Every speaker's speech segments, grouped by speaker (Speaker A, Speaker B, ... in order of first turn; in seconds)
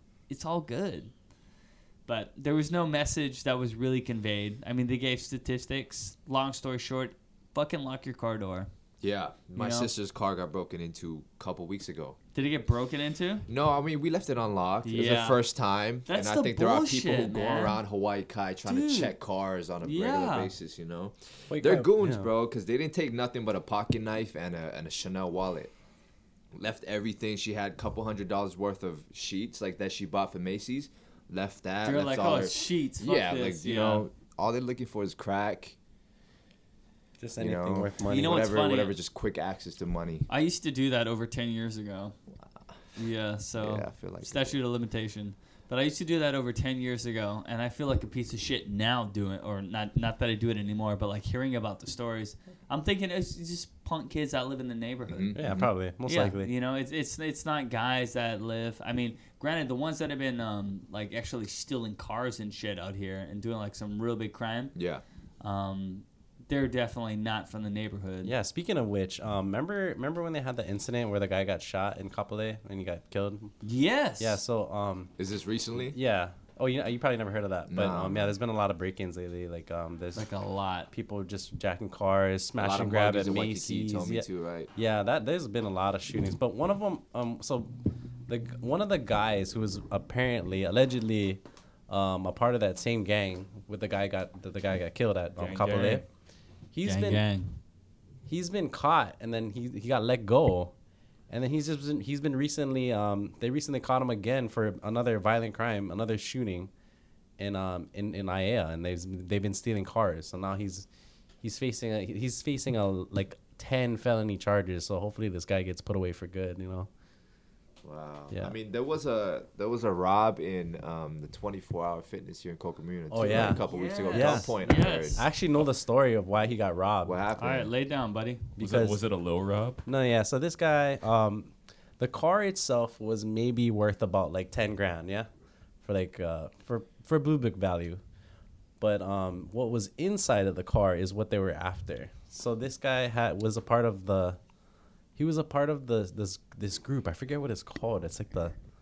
Speaker A: 0.3-1.1, 2.0-8.7, 9.6-9.9, 12.3-13.4, 14.8-15.4, 16.1-17.8, 18.6-19.1, 19.8-20.5, 31.8-34.0, 38.0-39.0, 40.3-42.1, 43.0-55.5, 56.0-64.7, 65.4-68.3, 73.6-74.4, 80.1-80.9, 95.4-96.0, 96.8-97.5, 123.3-125.3, 127.4-128.5
Speaker B: 9.0-12.2, 13.5-25.7, 26.5-35.8, 37.4-40.3, 43.6-44.6, 55.1-55.7, 64.7-65.0, 75.2-76.0, 77.7-78.3, 82.6-84.7, 117.8-125.2, 127.0-127.7
Speaker C: 21.5-22.3, 37.2-38.5, 55.3-56.5, 68.2-73.5, 74.2-75.1, 75.8-80.3, 80.9-87.7, 88.3-96.0, 96.7-97.2, 98.2-100.7, 101.3-106.7, 107.4-110.9, 111.4-116.9, 123.1-127.2, 128.6-129.0, 129.8-135.3, 135.8-138.0, 138.8-144.4, 145.2-148.5
Speaker D: 95.4-96.0, 128.6-129.8